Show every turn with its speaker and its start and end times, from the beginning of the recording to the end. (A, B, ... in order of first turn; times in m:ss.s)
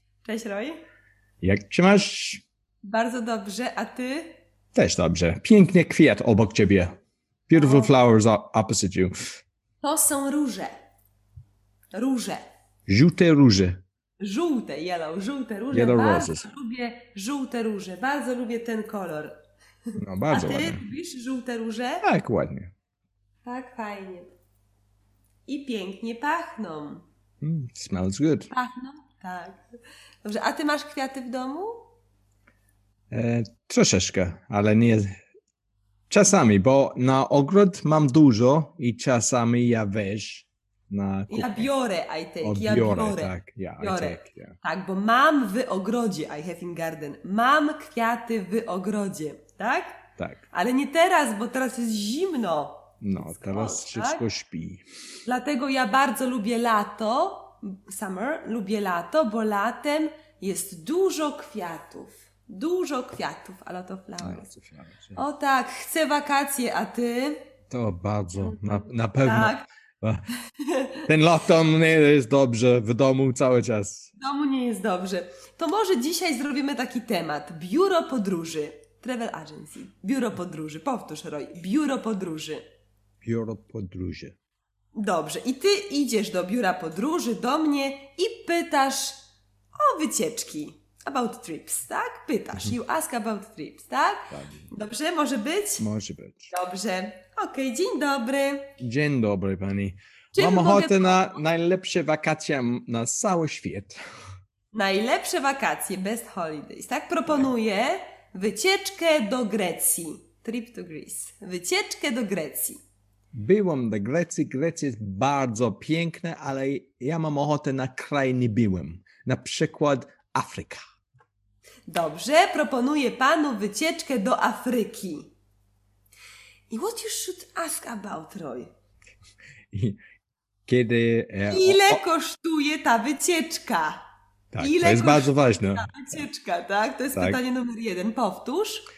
0:00.2-0:00.8 A
0:01.4-0:02.4 B
0:02.8-0:04.4 A
0:04.8-0:07.0 B
0:07.5-0:09.1 B
0:07.5-0:07.9 A
0:09.8-0:10.7 A
0:11.9-0:12.4 A
0:12.9-0:13.8 B
0:14.2-0:19.4 A
0:15.7-0:16.5 B
0:20.0-0:20.8 B
0:20.3-0:22.0 A
0:22.0-0:22.7 B
0:23.4-0:24.3 A
0:25.5-0:27.0 A
0:27.4-0:28.5 B
0:28.5-0:29.6 A
0:30.2-0:31.9 A
0:33.1-0:35.1 B
0:36.1-0:41.7 B
0:41.3-0:54.2 A
0:42.4-0:44.6 B
0:50.2-0:50.4 B
0:53.0-0:54.8 B
0:55.3-1:04.5 A
1:04.2-1:05.2 B
1:05.2-1:07.4 A
1:07.7-1:10.2 B
1:09.2-1:09.7 A
1:10.6-1:11.0 A
1:11.0-1:14.1 B
1:14.2-1:22.6 A
1:23.2-1:24.4 B
1:25.0-1:29.2 A
1:29.8-1:35.8 A
1:34.3-1:34.7 B
1:35.8-1:36.5 B
1:36.5-1:38.7 A
1:38.8-1:44.0 B
1:40.3-1:41.3 A
1:44.7-1:52.8 A
1:53.3-2:00.8 B
2:01.9-2:05.3 A
2:06.7-2:08.7 A
2:09.7-2:10.0 B
2:10.7-2:12.0 B
2:11.5-2:14.0 A
2:14.5-2:15.9 B
2:14.6-2:18.8 A
2:17.1-2:17.4 B